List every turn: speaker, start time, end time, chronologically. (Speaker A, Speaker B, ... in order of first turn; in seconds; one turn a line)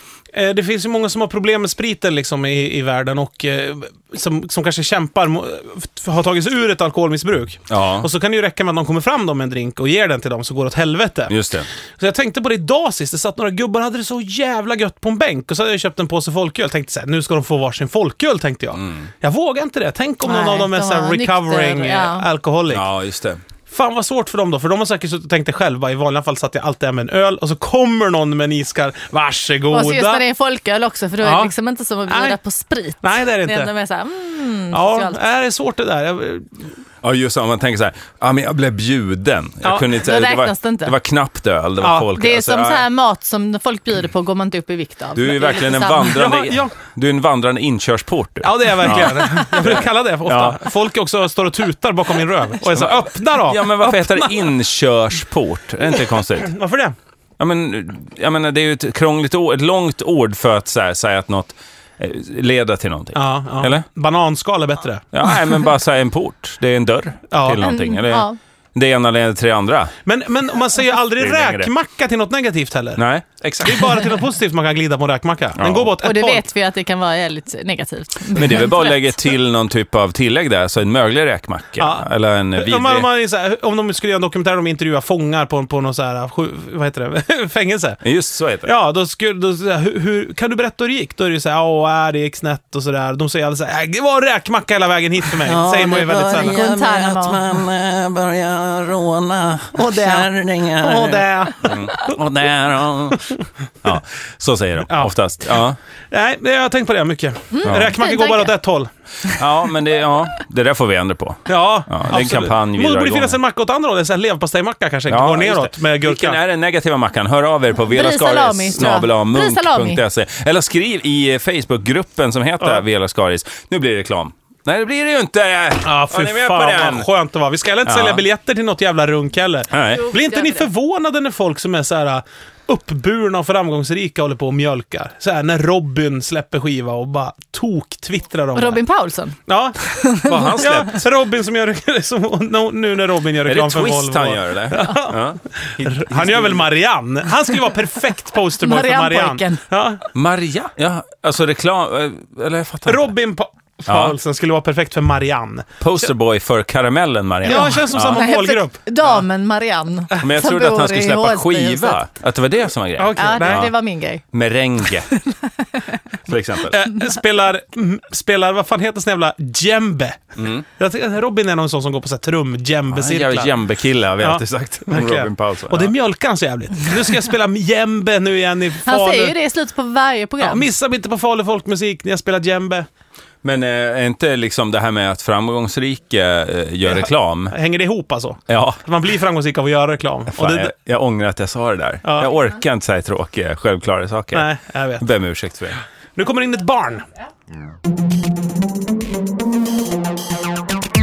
Speaker A: 0.3-11.4
Speaker B: 7.7-8.1
Speaker B: 11.3-11.7
Speaker A: 12.0-22.9
Speaker B: 18.7-19.1
Speaker C: 20.2-22.3
Speaker B: 22.7-23.4
Speaker A: 23.7-30.2
Speaker C: 29.7-35.2
Speaker A: 31.2-31.5
Speaker A: 32.1-32.4
Speaker A: 33.0-33.7
Speaker A: 34.7-36.6
Speaker B: 37.0-42.9
Speaker A: 39.6-39.9
Speaker C: 39.9-40.9
Speaker A: 41.8-42.1
Speaker C: 42.1-46.2
Speaker B: 45.1-50.6
Speaker A: 46.0-46.8
Speaker A: 48.4-54.5
Speaker B: 52.6-56.5
Speaker A: 56.2-56.9
Speaker B: 57.4-63.9
Speaker A: 63.1-65.1
Speaker B: 65.1-69.9
Speaker A: 67.3-67.6
Speaker C: 67.6-68.4
Speaker A: 70.0-73.0
Speaker B: 71.2-71.7
Speaker B: 73.0-74.0
Speaker A: 73.6-76.4
Speaker B: 75.5-75.9
Speaker C: 76.0-79.1
Speaker B: 78.3-83.1
Speaker A: 81.8-88.0
Speaker B: 88.0-88.7
Speaker A: 88.6-96.5
Speaker B: 95.4-103.3
Speaker C: 96.3-97.4
Speaker A: 99.7-101.8
Speaker B: 103.8-105.8
Speaker A: 104.9-108.9
Speaker C: 107.5-108.5
Speaker B: 107.7-107.9
Speaker B: 109.3-113.4
Speaker A: 111.5-116.4
Speaker B: 115.1-127.1
Speaker C: 117.9-120.0
Speaker A: 125.8-138.8
Speaker B: 127.8-128.2
Speaker B: 129.7-130.1
Speaker C: 129.9-130.7
Speaker C: 138.5-140.6
Speaker A: 139.5-150.0
Speaker B: 140.2-141.0
Speaker B: 143.4-146.7
Speaker C: 148.6-149.6
Speaker B: 150.1-153.1
Speaker A: 152.8-156.1
Speaker B: 153.9-154.2
Speaker B: 155.8-158.2
Speaker A: 157.4-159.2
Speaker C: 157.4-162.0
Speaker B: 160.2-163.7
Speaker A: 163.0-163.7
Speaker C: 163.2-164.2
Speaker B: 164.3-165.1
Speaker C: 165.1-166.0
Speaker B: 166.2-166.8
Speaker A: 166.7-173.6
Speaker C: 166.8-167.2
Speaker B: 170.4-170.6
Speaker B: 172.9-175.9
Speaker A: 174.2-179.3
Speaker C: 178.8-180.6
Speaker A: 180.4-182.8
Speaker B: 183.4-187.5
Speaker A: 186.8-190.7
Speaker B: 188.5-188.8
Speaker B: 190.3-195.8
Speaker A: 192.0-192.3
Speaker A: 194.3-195.1
Speaker A: 196.2-197.1